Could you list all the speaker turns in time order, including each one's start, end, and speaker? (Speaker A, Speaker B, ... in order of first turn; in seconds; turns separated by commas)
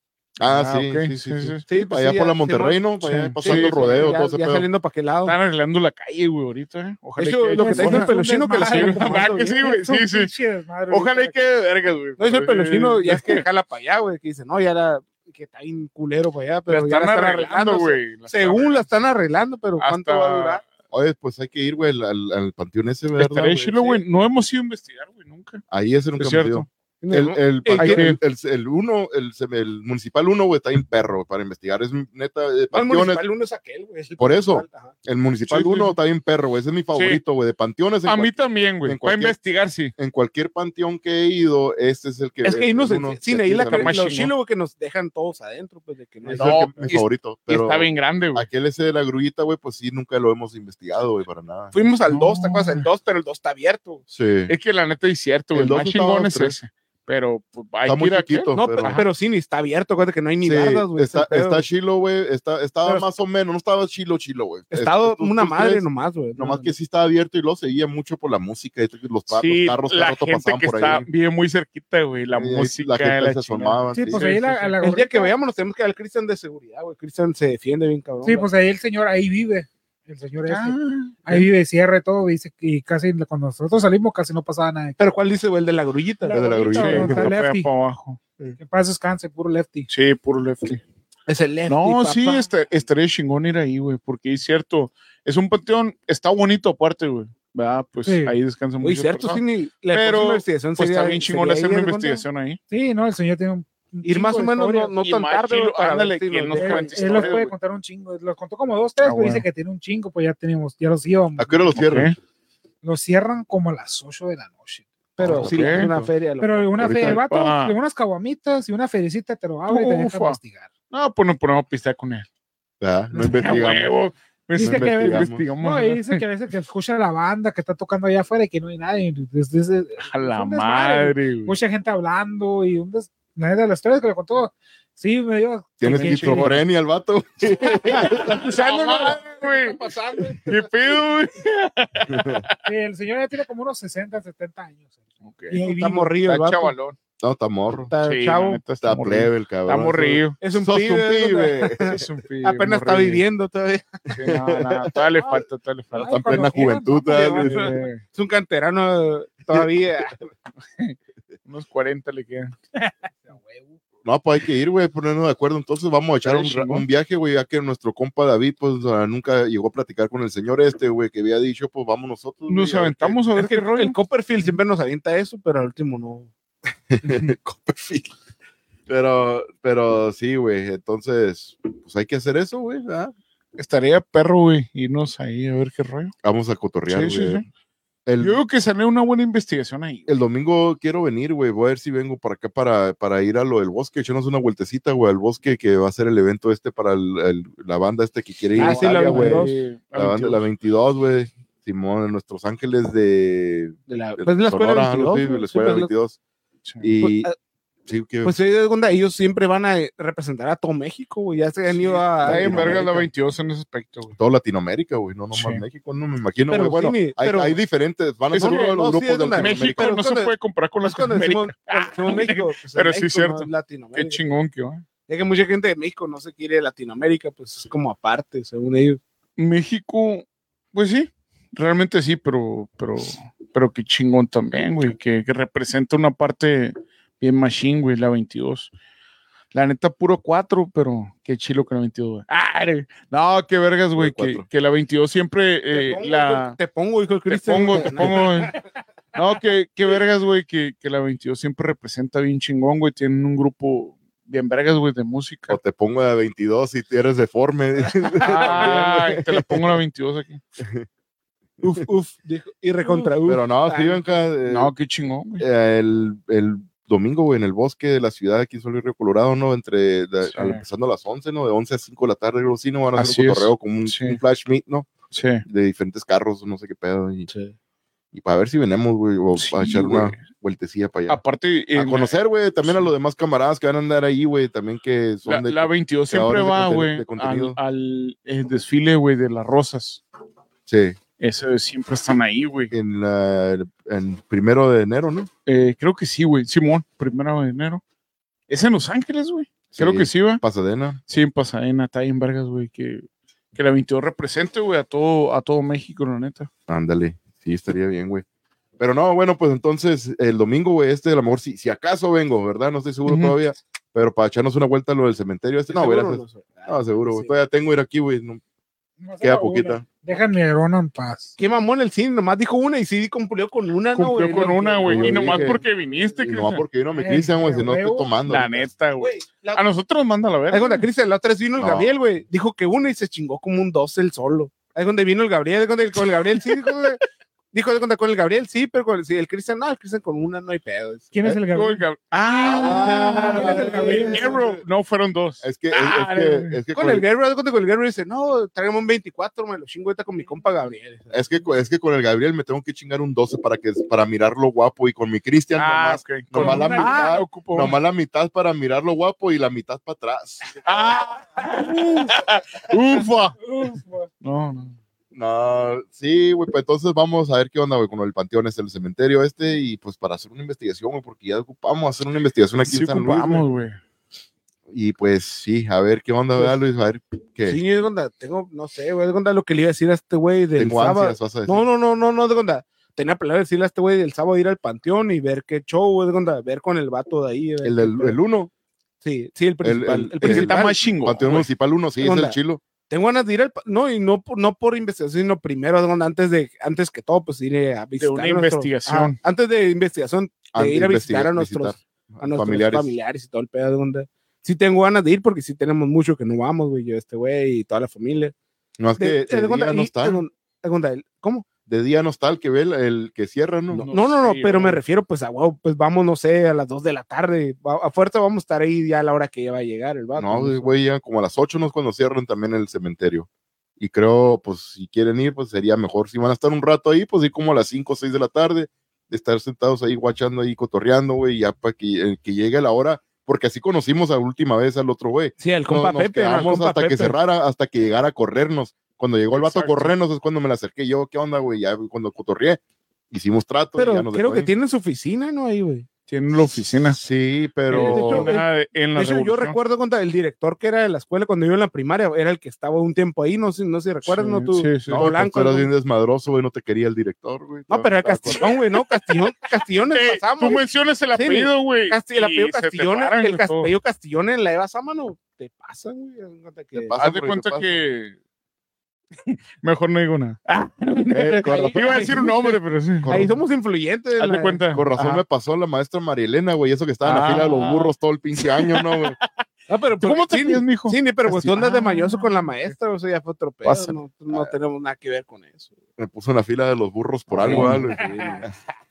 Speaker A: 0.4-4.7, Speaker B: 0.4-1.6, Speaker C: 1.7-2.9, Speaker B: 3.0-4.2, Speaker C: 3.4-5.4, Speaker B: 5.2-10.3, Speaker C: 7.2-9.5, Speaker D: 7.6-11.3, Speaker B: 10.9-13.4, Speaker C: 12.2-20.6, Speaker B: 16.7-18.9, Speaker B: 19.8-20.6, Speaker A: 20.9-24.0, Speaker B: 23.2-25.6, Speaker A: 25.7-33.2, Speaker B: 26.2-26.7, Speaker C: 27.0-28.1, Speaker B: 27.8-28.2, Speaker C: 32.7-34.9, Speaker A: 34.2-39.4, Speaker B: 35.5-36.0, Speaker B: 36.9-37.2, Speaker B: 38.0-39.9, Speaker A: 40.0-44.0, Speaker C: 42.4-47.0, Speaker B: 43.6-44.3, Speaker A: 46.3-51.7, Speaker B: 46.3-48.5, Speaker C: 51.7-54.0, Speaker B: 52.1-52.9, Speaker A: 54.1-54.5, Speaker B: 54.5-59.1, Speaker A: 55.5-56.6, Speaker A: 57.9-59.0, Speaker C: 58.5-61.6, Speaker A: 60.4-71.1, Speaker C: 64.7-66.7, Speaker B: 69.3-74.8, Speaker A: 72.3-74.3, Speaker D: 73.9-75.3, Speaker C: 74.8-78.5, Speaker D: 78.2-85.0, Speaker B: 80.5-81.5, Speaker C: 85.0-86.6, Speaker D: 86.2-87.7, Speaker A: 86.3-87.3, Speaker B: 86.8-88.6, Speaker D: 88.6-89.9, Speaker B: 89.9-90.8, Speaker C: 91.3-92.5, Speaker B: 91.7-102.6, Speaker D: 98.1-98.4, Speaker C: 98.8-102.2, Speaker D: 102.7-105.0, Speaker C: 104.0-107.4, Speaker B: 105.0-107.5, Speaker D: 106.6-111.8, Speaker B: 109.0-109.5, Speaker A: 111.4-112.1, Speaker B: 111.8-112.2, Speaker D: 112.8-114.8, Speaker C: 115.2-116.8, Speaker A: 115.2-116.1, Speaker B: 115.2-115.9, Speaker D: 116.4-120.7, Speaker A: 116.8-117.2, Speaker B: 116.8-117.8, Speaker B: 119.7-120.4, Speaker B: 120.9-122.3, Speaker A: 122.8-123.9, Speaker B: 123.2-126.2, Speaker A: 124.6-125.5, Speaker D: 124.6-136.6, Speaker B: 130.0-131.6, Speaker A: 135.8-138.6, Speaker B: 135.8-136.6, Speaker C: 138.0-140.5, Speaker B: 138.3-139.8, Speaker B: 140.5-142.6, Speaker A: 142.1-142.4, Speaker D: 142.7-144.9, Speaker B: 145.2-145.7, Speaker D: 145.5-146.1, Speaker C: 145.6-146.8, Speaker B: 146.2-147.0, Speaker A: 147.2-147.9, Speaker C: 147.9-148.6, Speaker B: 148.0-150.4, Speaker A: 148.8-152.1, Speaker C: 150.4-154.1, Speaker B: 151.9-153.2, Speaker B: 154.1-156.5, Speaker A: 154.2-155.2, Speaker D: 155.9-157.7, Speaker A: 156.0-157.7, Speaker C: 157.1-160.2, Speaker B: 157.4-158.0, Speaker B: 160.8-162.6, Speaker C: 163.3-163.8, Speaker A: 164.0-173.2, Speaker C: 166.3-166.8, Speaker B: 166.5-166.8, Speaker B: 172.5-174.0, Speaker C: 173.4-176.3, Speaker A: 176.9-178.1, Speaker A: 178.9-183.1, Speaker B: 183.6-186.1, Speaker A: 186.2-187.4, Speaker B: 186.9-187.4, Speaker A: 188.1-188.4, Speaker B: 188.2-190.1, Speaker A: 190.1-206.2, Speaker C: 198.6-199.5, Speaker B: 198.6-200.4, Speaker C: 203.9-205.9, Speaker A: 206.8-207.3, Speaker C: 207.0-207.4, Speaker A: 207.9-208.3, Speaker C: 208.2-213.1, Speaker A: 211.8-213.0, Speaker B: 212.2-214.2, Speaker A: 214.2-220.0, Speaker B: 215.3-215.6, Speaker C: 216.5-217.6, Speaker C: 218.3-224.2, Speaker B: 218.3-218.8, Speaker B: 219.3-224.8, Speaker C: 225.1-229.0, Speaker B: 229.4-238.7, Speaker B: 239.5-246.6, Speaker A: 244.0-244.5, Speaker C: 245.7-248.6, Speaker B: 247.3-248.6, Speaker B: 249.2-255.6, Speaker A: 255.5-259.7, Speaker C: 258.2-259.1, Speaker B: 258.2-260.4, Speaker A: 260.6-260.9, Speaker C: 261.6-264.0, Speaker A: 263.2-264.7, Speaker B: 264.5-265.4, Speaker A: 265.4-274.9, Speaker B: 270.3-270.6, Speaker B: 273.0-274.2, Speaker B: 275.1-275.4, Speaker A: 275.4-277.3, Speaker A: 278.1-281.2, Speaker B: 279.4-280.2, Speaker B: 281.1-282.9, Speaker A: 281.7-287.6, Speaker B: 285.3-290.0, Speaker A: 290.7-291.0, Speaker B: 291.2-292.7, Speaker A: 292.7-295.3, Speaker B: 295.5-297.8, Speaker B: 298.5-300.4, Speaker A: 299.8-301.0, Speaker B: 301.1-306.5, Speaker A: 306.7-308.2, Speaker A: 308.8-318.4, Speaker B: 313.1-313.4, Speaker C: 315.7-317.3, Speaker D: 319.0-321.4, Speaker A: 319.2-319.9, Speaker C: 321.4-326.2, Speaker B: 323.9-326.6, Speaker A: 324.8-325.6, Speaker A: 326.2-328.7, Speaker D: 326.9-328.1, Speaker B: 328.3-330.9, Speaker C: 329.0-329.6, Speaker C: 330.5-341.1, Speaker A: 331.6-331.9, Speaker D: 341.1-341.8, Speaker B: 341.5-346.6, Speaker C: 342.4-344.5, Speaker A: 342.4-344.6, Speaker D: 342.7-344.3, Speaker A: 345.4-347.1, Speaker C: 346.7-351.2, Speaker A: 351.1-360.5, Speaker B: 355.6-357.8, Speaker D: 356.4-357.2, Speaker B: 360.6-364.8, Speaker D: 363.4-364.1, Speaker A: 365.1-373.4, Speaker B: 372.6-373.8, Speaker A: 374.7-377.6, Speaker C: 377.5-388.2, Speaker A: 380.6-381.6, Speaker A: 387.6-388.5, Speaker C: 389.0-390.8, Speaker A: 389.6-392.6, Speaker B: 390.2-391.5, Speaker C: 392.0-392.4, Speaker C: 392.9-408.3, Speaker B: 398.0-399.2, Speaker A: 400.5-402.9, Speaker A: 408.8-410.2, Speaker C: 409.0-411.5, Speaker A: 411.7-413.9, Speaker B: 413.7-414.8, Speaker C: 413.8-420.7, Speaker A: 420.2-423.3, Speaker A: 423.8-444.5, Speaker C: 435.4-437.2, Speaker B: 439.3-439.9, Speaker C: 443.8-445.9, Speaker B: 446.1-447.0, Speaker A: 446.9-448.3, Speaker B: 447.7-449.6, Speaker C: 447.7-455.7, Speaker B: 454.1-455.1, Speaker A: 454.9-458.5, Speaker C: 457.7-460.6, Speaker B: 458.3-459.1, Speaker B: 459.9-463.7, Speaker C: 461.1-466.9, Speaker A: 466.8-467.8, Speaker B: 466.9-468.2, Speaker B: 469.3-473.3, Speaker A: 471.1-472.3, Speaker C: 471.5-472.6, Speaker A: 473.0-473.3, Speaker C: 473.1-475.2, Speaker B: 474.2-474.9, Speaker A: 474.7-479.2, Speaker B: 477.0-479.3, Speaker C: 479.7-485.7, Speaker B: 480.0-482.5, Speaker B: 483.6-483.9, Speaker A: 486.0-488.6, Speaker C: 487.3-488.5, Speaker B: 487.4-487.9